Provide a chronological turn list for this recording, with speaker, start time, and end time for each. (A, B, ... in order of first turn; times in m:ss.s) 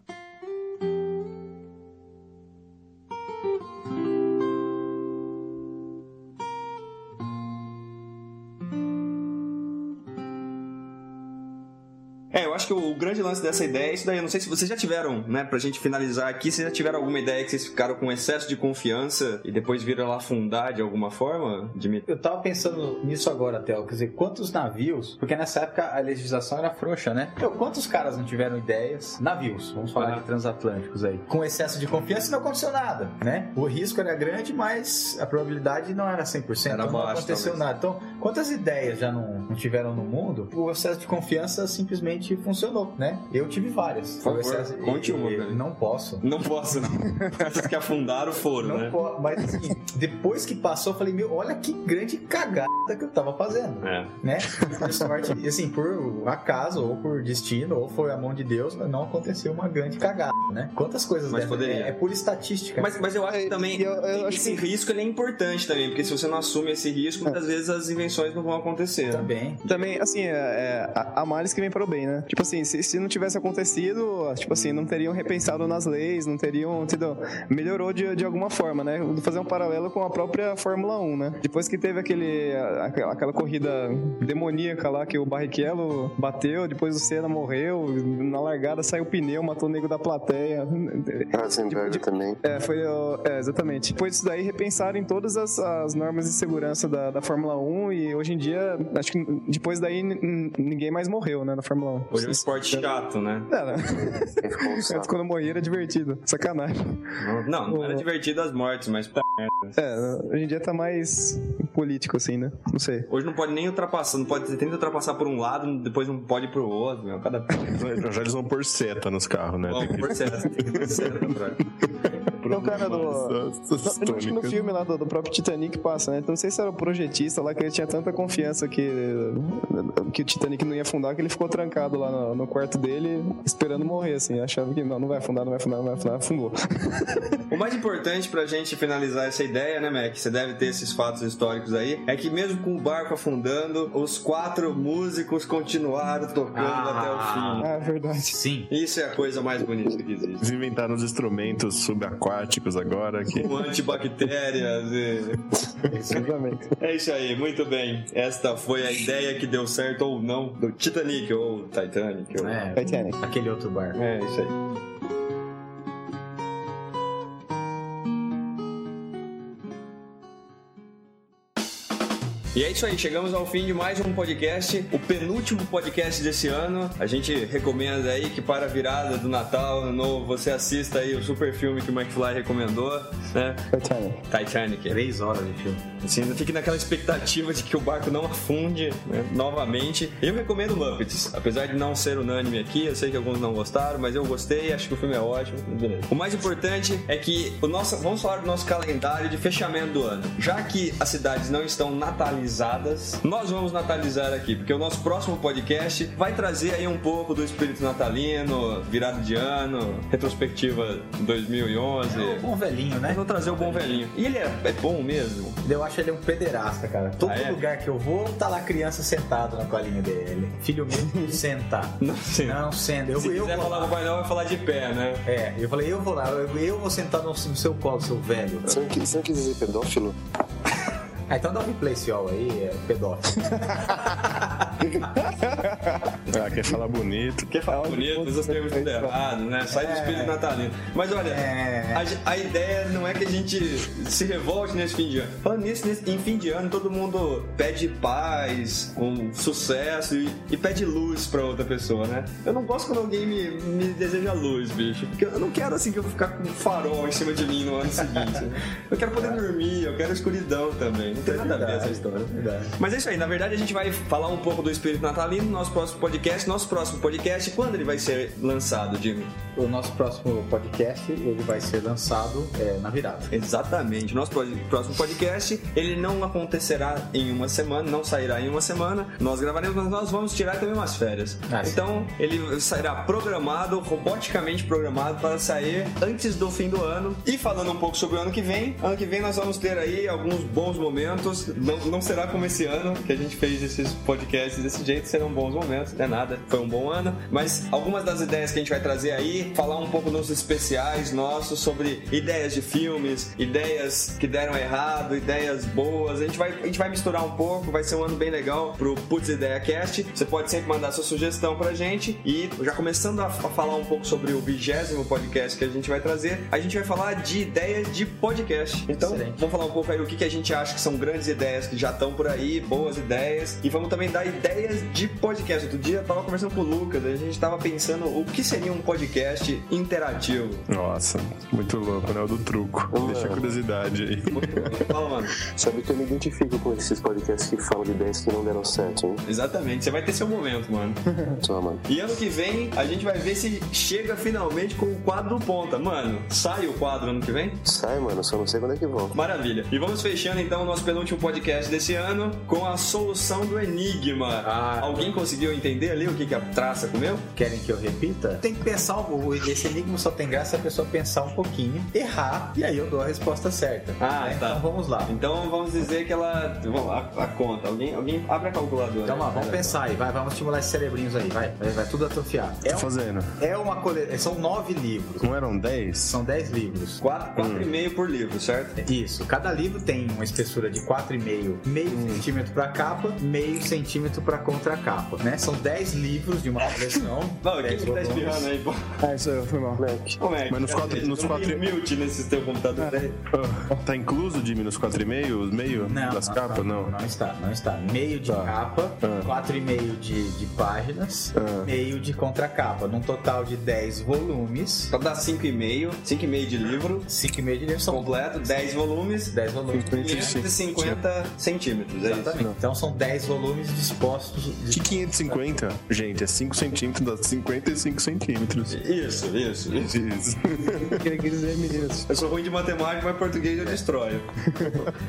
0:12.3-0:22.0 A
0:22.1-0:46.2 B
0:30.0-0:30.2 A
0:36.7-0:37.7 A
0:44.2-0:45.6 A
0:46.2-0:49.0 A
0:47.2-0:47.5 C
0:48.6-1:03.1 B
0:53.8-0:54.1 A
1:01.3-1:01.9 A
1:02.8-1:09.8 A
1:03.3-1:04.6 C
1:09.1-1:09.6 B
1:09.7-1:42.9 C
1:31.3-1:32.4 D
1:42.1-1:43.5 A
1:43.5-1:48.0 C
1:43.9-1:45.1 D
1:47.2-1:49.8 A
1:49.8-1:53.1 C
1:53.1-1:57.7 A
1:57.7-2:04.6 E
1:59.7-2:01.6 A
2:02.5-2:17.4 C
2:02.6-2:03.1 A
2:17.5-2:27.7 A
2:26.5-2:28.7 B
2:27.6-2:28.4 C
2:28.7-2:30.5 A
2:30.4-2:33.6 E
2:33.3-2:35.5 A
2:35.9-2:36.3 B
2:36.1-2:36.7 C
2:36.8-2:42.6 A
2:42.4-2:44.0 B
2:42.7-2:43.2 C
2:43.9-2:44.5 A
2:52.5-3:03.7 A
3:03.7-3:04.2 C
3:04.3-3:05.0 A
3:04.9-3:05.8 B
3:06.0-3:32.5 A
3:32.0-3:33.9 B
3:33.0-3:35.6 A
3:35.6-3:44.0 B
3:37.2-3:37.6 A
3:42.0-3:45.2 A
3:45.2-3:48.7 B
3:48.6-3:50.2 D
3:51.3-3:55.1 B
3:55.2-3:56.1 C
3:56.3-3:57.5 E
3:57.5-4:29.3 A
3:57.7-3:59.1 C
3:59.7-4:00.4 B
4:01.2-4:02.1 B
4:19.2-4:19.4 B
4:21.2-4:22.7 B
4:29.6-4:33.3 B
4:33.3-5:30.7 A
4:41.5-4:42.0 B
5:19.0-5:19.4 B
5:30.7-5:34.9 E
5:32.9-5:33.5 D
5:34.3-5:35.4 A
5:35.5-5:39.2 D
5:39.2-5:41.0 A
5:41.4-5:41.8 D
5:41.9-5:47.6 A
5:47.6-5:49.2 D
5:49.1-5:57.3 A
5:54.4-5:55.1 B
5:57.3-6:05.2 B
6:04.0-6:09.8 A
6:09.0-6:15.3 B
6:12.7-6:13.4 E
6:15.2-6:16.2 E
6:16.0-6:17.0 B
6:17.0-6:18.8 A
6:17.4-6:17.7 E
6:18.8-6:28.5 B
6:21.9-6:22.2 E
6:27.4-6:29.0 A
6:29.0-6:29.8 C
6:29.8-6:30.2 D
6:30.2-6:33.2 A
6:30.5-6:31.6 E
6:33.3-6:36.9 E
6:35.8-6:44.9 B
6:38.3-6:39.3 E
6:41.3-6:41.7 E
6:44.9-6:47.1 A
6:47.1-6:48.6 B
6:47.9-6:49.3 A
6:49.3-6:50.4 B
6:49.7-6:51.0 E
6:49.8-6:52.4 A
6:52.0-6:55.4 B
6:54.7-6:58.8 E
6:58.7-7:00.0 A
6:59.8-7:01.0 E
7:00.8-7:02.1 C
7:02.0-7:04.3 A
7:04.5-7:04.9 C